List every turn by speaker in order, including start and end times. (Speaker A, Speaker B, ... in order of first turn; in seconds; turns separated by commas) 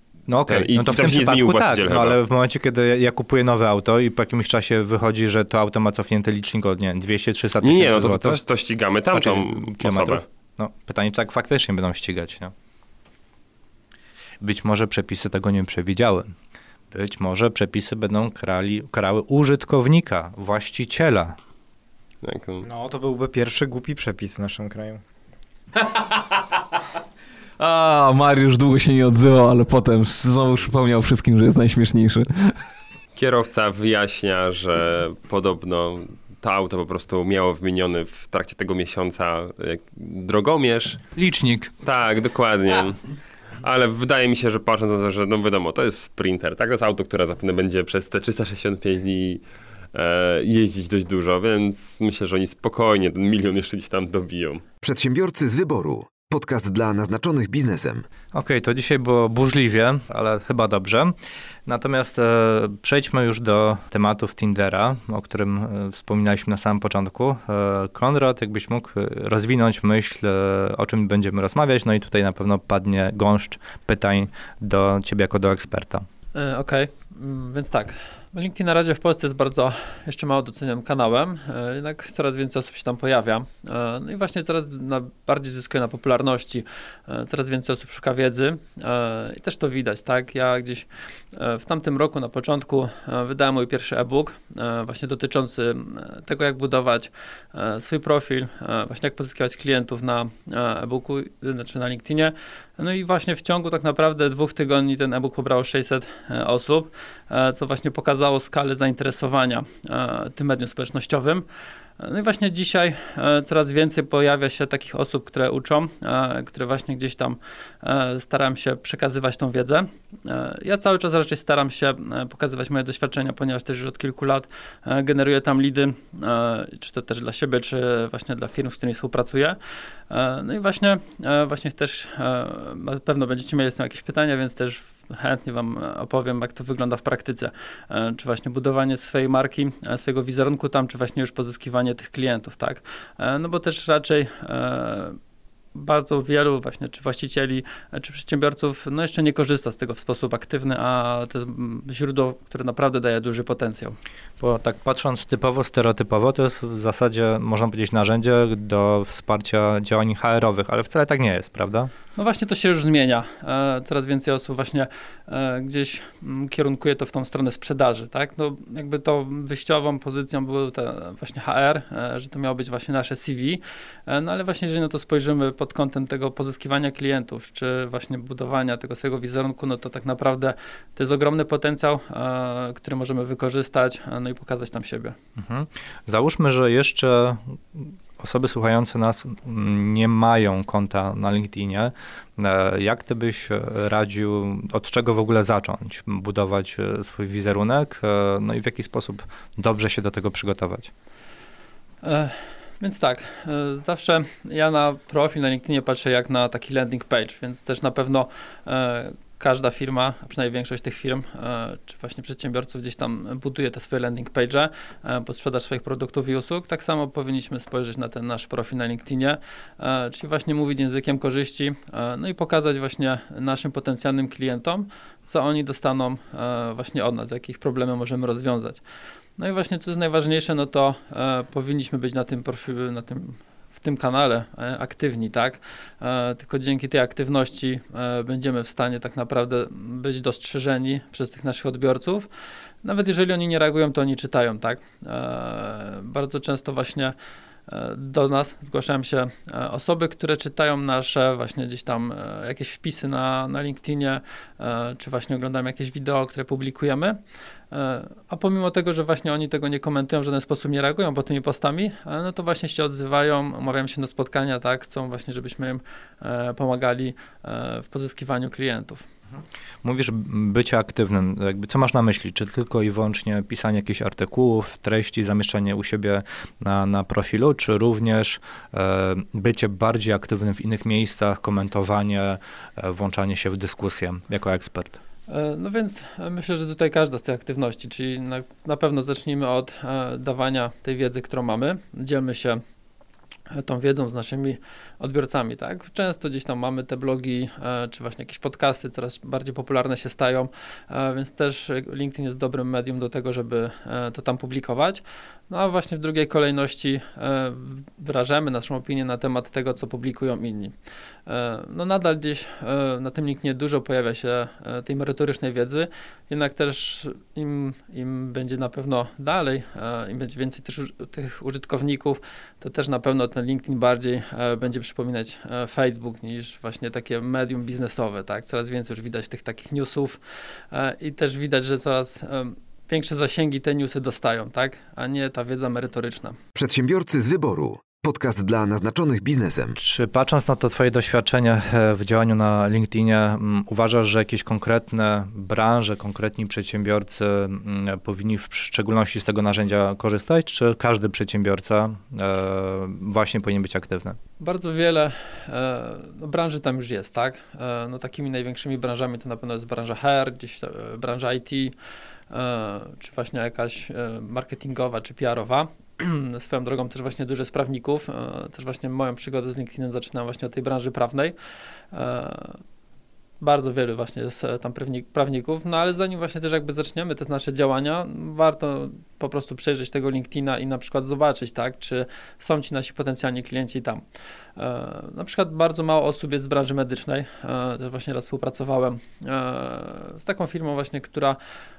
Speaker A: 0.3-8.4, Speaker B: 0.5-2.2, Speaker B: 7.6-10.2, Speaker A: 9.1-12.5, Speaker A: 14.4-16.3, Speaker A: 16.9-21.4, Speaker B: 22.2-22.7, Speaker C: 22.6-25.0, Speaker D: 27.6-32.5, Speaker B: 33.2-41.0, Speaker A: 41.2-41.7, Speaker B: 41.8-43.1, Speaker B: 43.6-49.4, Speaker B: 49.9-54.6, Speaker E: 54.8-58.1, Speaker A: 58.3-61.1, Speaker A: 61.7-76.1, Speaker F: 76.3-111.5, Speaker F: 112.0-129.6, Speaker F: 130.1-145.2, Speaker F: 145.8-154.0, Speaker A: 154.4-161.9, Speaker F: 162.2-185.2, Speaker A: 185.4-200.9, Speaker F: 202.0-228.8, Speaker F: 229.4-242.3, Speaker F: 242.8-247.2, Speaker F: 247.7-257.2, Speaker F: 257.7-269.0, Speaker A: 269.8-285.0, Speaker F: 285.3-292.6, Speaker F: 293.5-310.7, Speaker F: 311.3-330.2, Speaker F: 330.7-336.4, Speaker E: 336.5-339.8, Speaker A: 339.8-354.2, Speaker F: 354.4-361.8, Speaker F: 362.3-371.4, Speaker F: 371.9-372.6, Speaker F: 373.4-384.1, Speaker F: 384.6-391.4